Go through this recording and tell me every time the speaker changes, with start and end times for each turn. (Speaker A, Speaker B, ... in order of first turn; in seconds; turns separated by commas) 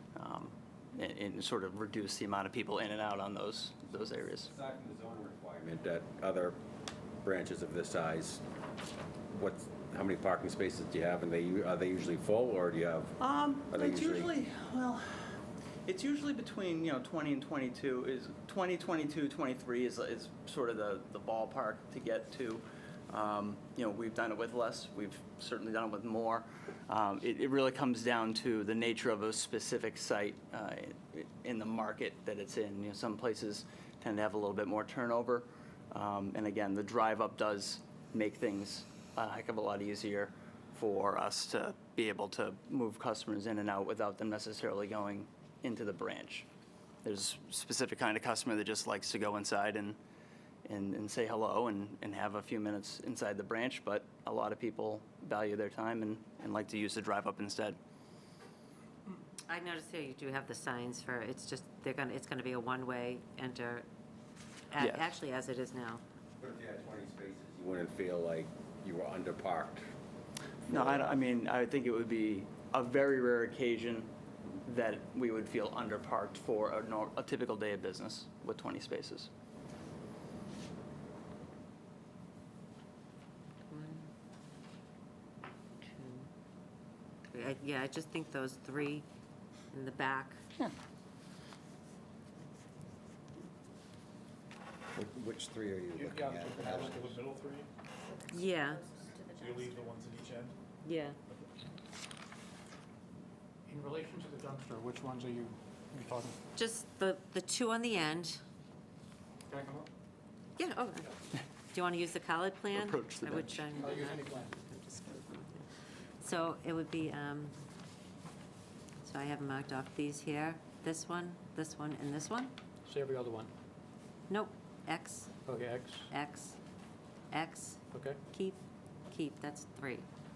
Speaker A: 0.1-4.5, Speaker B: 4.4-6.6, Speaker B: 7.2-8.4, Speaker B: 9.3-13.2, Speaker A: 13.2-46.5, Speaker B: 13.7-14.3, Speaker A: 47.0-50.0, Speaker A: 50.6-57.8, Speaker C: 59.5-63.9, Speaker C: 64.7-66.0, Speaker A: 64.8-65.2, Speaker B: 66.4-69.9, Speaker A: 70.7-79.3, Speaker B: 70.7-71.2, Speaker C: 83.7-84.1, Speaker C: 85.8-86.3, Speaker C: 87.3-89.1, Speaker C: 89.7-90.4, Speaker D: 94.9-97.2, Speaker E: 95.9-97.7, Speaker F: 98.0-100.1, Speaker C: 98.3-98.8, Speaker E: 99.4-100.5, Speaker C: 100.8-101.2, Speaker E: 103.7-106.4, Speaker C: 106.5-108.4, Speaker E: 109.5-109.9, Speaker C: 110.6-111.1, Speaker C: 111.7-115.7, Speaker A: 112.7-113.7, Speaker E: 113.8-114.6, Speaker C: 116.2-117.6, Speaker C: 119.0-122.5, Speaker E: 122.8-123.5, Speaker C: 124.3-125.4, Speaker E: 125.5-126.1, Speaker C: 126.1-126.6, Speaker C: 127.3-128.6, Speaker E: 127.9-128.2, Speaker C: 129.1-130.1